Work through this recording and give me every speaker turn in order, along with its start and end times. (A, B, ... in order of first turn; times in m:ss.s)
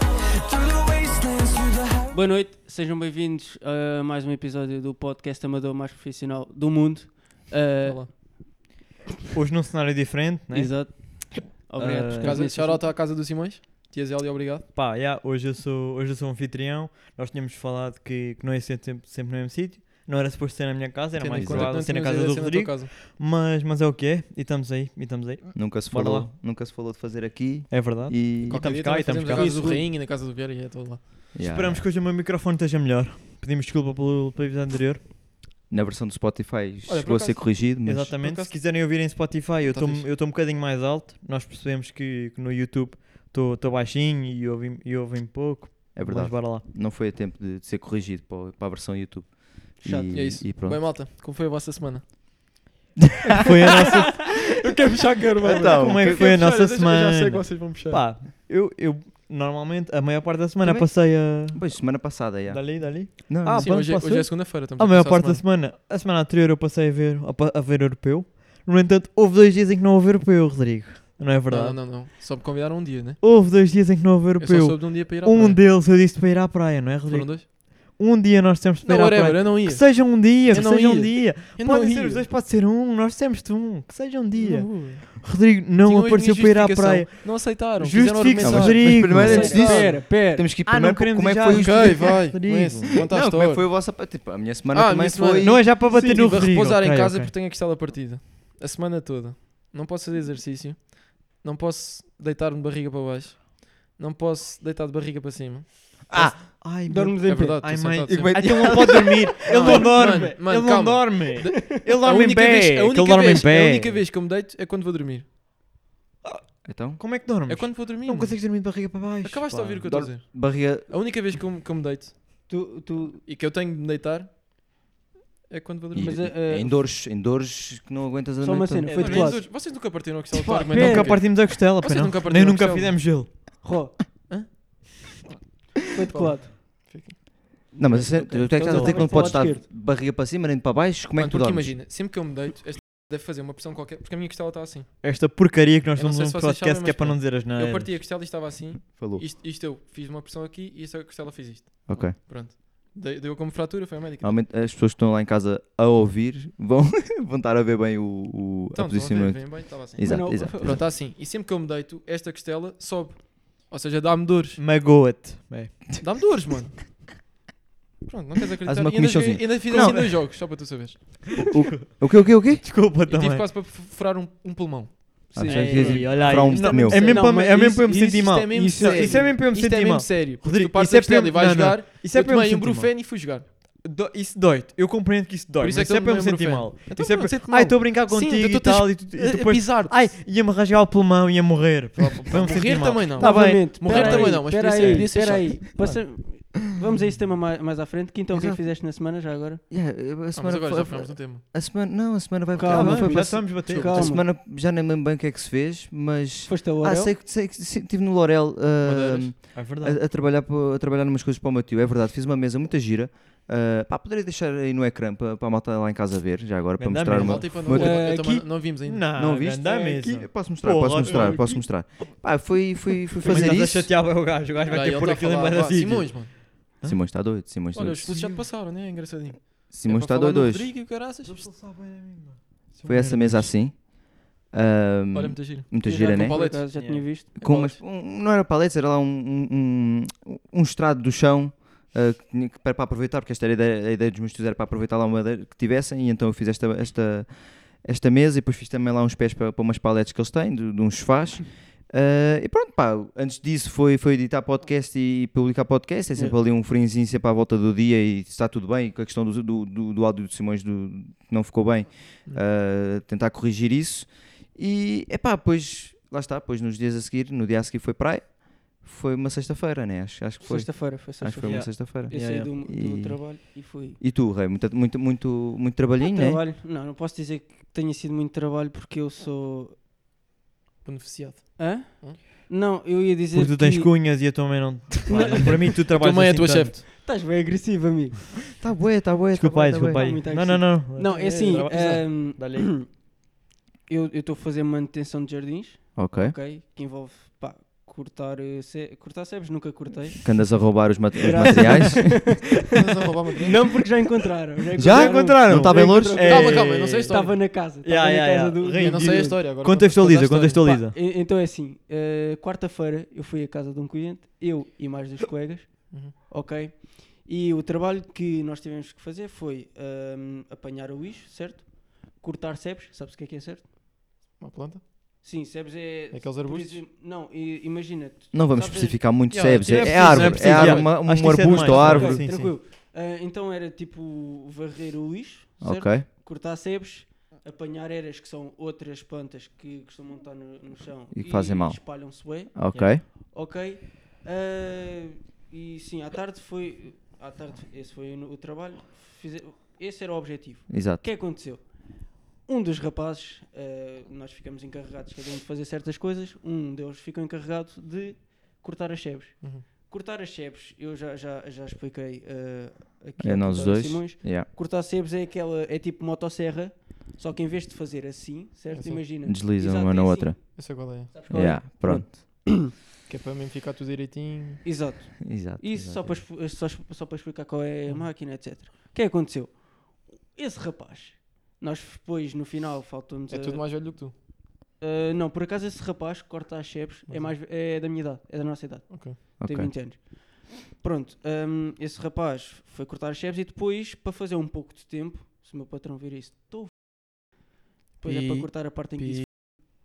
0:02.0-0:08.4 A
0:07.8-0:08.1 B
0:09.3-0:11.2 C
0:10.5-0:12.9 A
0:11.8-0:12.4 C
0:12.2-0:14.7 B
0:14.7-0:26.3 C
0:21.2-0:22.9 B
0:21.3-0:21.8 D
0:25.5-0:29.0 D
0:27.7-0:29.6 C
0:28.4-0:31.3 B
0:29.3-0:29.9 A
0:31.3-0:31.8 D
0:31.4-0:35.0 C
0:35.7-0:38.2 D
0:36.9-0:38.6 B
0:37.8-0:46.6 C
0:39.7-0:40.1 B
0:45.9-0:50.8 D
0:49.8-0:50.2 A
0:50.1-0:52.1 B
0:53.4-0:54.5 C
0:54.1-0:58.1 B
0:55.4-0:56.3 D
0:55.5-1:11.9 C
1:00.6-1:03.9 D
1:03.5-1:05.4 B
1:11.5-1:13.2 B
1:13.2-1:29.9 C
1:14.4-1:15.6 B
1:17.1-1:17.4 B
1:18.8-1:22.3 B
1:24.4-1:30.0 B
1:28.4-1:35.6 D
1:29.0-1:30.4 A
1:30.6-1:33.0 C
1:31.5-1:33.7 B
1:34.7-1:45.9 B
1:35.4-1:37.3 C
1:46.1-1:46.4 D
1:46.1-1:54.0 C
1:46.9-1:47.6 A
1:47.2-1:48.9 B
1:48.1-1:49.7 D
1:49.5-1:55.2 B
1:49.6-1:50.6 A
1:56.6-1:57.0 D
1:57.0-1:59.9 C
1:57.4-2:02.1 B
1:59.8-2:00.9 D
2:02.5-2:03.2 A
2:03.2-2:04.3 B
2:05.5-2:06.3 B
2:05.9-2:09.4 D
2:06.0-2:06.9 A
2:08.4-2:11.1 A
2:08.9-2:13.3 B
2:09.0-2:09.2 C
2:10.7-2:13.6 C
2:13.6-2:14.3 A
2:14.3-2:15.2 B
2:15.8-2:18.2 B
2:15.9-2:16.5 A
2:17.7-2:21.7 D
2:17.9-2:19.6 A
2:18.6-2:19.4 C
2:21.2-2:25.0 B
2:25.0-2:28.0 C
2:26.0-2:34.3 B
2:28.9-2:29.2 D
2:31.9-2:32.2 D
2:34.2-2:40.9 D
2:38.7-2:44.6 B
2:40.0-2:40.8 A
2:44.6-2:45.9 C
2:46.0-2:46.9 B
2:48.0-2:51.4 B
2:48.6-2:50.1 D
2:49.7-2:50.2 C
2:51.3-2:53.4 C
2:51.6-2:52.7 D
2:53.0-2:56.6 B
2:55.3-2:59.2 A
2:55.3-2:57.2 D
2:55.5-3:16.0 C
2:57.3-3:03.5 B
3:05.6-3:10.2 B
3:12.0-3:15.6 B
3:13.2-3:19.6 A
3:18.3-3:18.6 D
3:19.7-3:38.2 D
3:20.3-3:21.4 B
3:22.5-3:24.3 A
3:22.6-3:24.2 C
3:26.5-3:27.1 A
3:28.8-3:29.3 B
3:29.5-3:30.0 C
3:36.8-3:41.6 C
3:37.2-3:39.1 B
3:37.8-3:38.4 A
3:39.2-3:43.9 D
3:41.0-3:41.4 B
3:43.1-3:47.0 C
3:43.3-3:43.8 B
3:44.6-3:46.4 B
3:46.8-3:48.1 D
3:47.7-3:51.4 B
3:48.1-3:48.4 C
3:49.7-3:50.8 D
3:51.2-3:53.6 C
3:52.8-3:56.4 D
3:55.1-3:56.7 B
3:55.8-3:57.8 A
3:56.7-3:57.0 C
3:57.4-4:36.4 D
4:30.4-4:34.0 A
4:31.4-4:32.5 C
4:36.0-4:39.8 A
4:40.8-4:42.2 B
4:41.6-4:44.2 A
4:43.3-4:46.8 C
4:45.1-4:45.5 A
4:45.2-4:46.8 B
4:47.0-4:48.4 A
4:48.6-4:50.2 D
4:49.3-4:52.7 C
4:49.9-4:53.0 A
4:51.1-4:52.0 B
4:53.9-5:02.8 A
4:55.9-4:56.3 D
5:00.2-5:02.5 D
5:02.7-5:03.6 B
5:03.4-5:09.4 A
5:04.8-5:06.7 D
5:04.8-5:11.0 C
5:06.2-5:07.3 B
5:08.7-5:10.7 B
5:10.6-5:23.7 A
5:24.4-5:24.8 B
5:25.2-5:29.0 A
5:26.1-5:26.8 B
5:28.3-5:32.3 D
5:29.0-5:31.1 B
5:29.7-5:32.5 C
5:31.3-6:12.7 A
5:31.6-5:32.1 B
5:35.6-5:36.0 D
5:41.1-5:43.0 D
5:50.7-5:51.0 D
6:03.2-6:04.5 D
6:08.7-6:09.0 B
6:09.2-6:10.6 D
6:10.6-6:11.5 B
6:11.3-6:12.2 D
6:13.0-6:14.6 B
6:14.6-6:23.9 A
6:15.2-6:16.2 D
6:23.3-6:24.1 B
6:24.8-6:37.0 A
6:27.1-6:27.4 B
6:28.9-6:29.2 B
6:29.4-6:29.7 D
6:38.0-6:39.2 A
6:38.0-6:39.2 B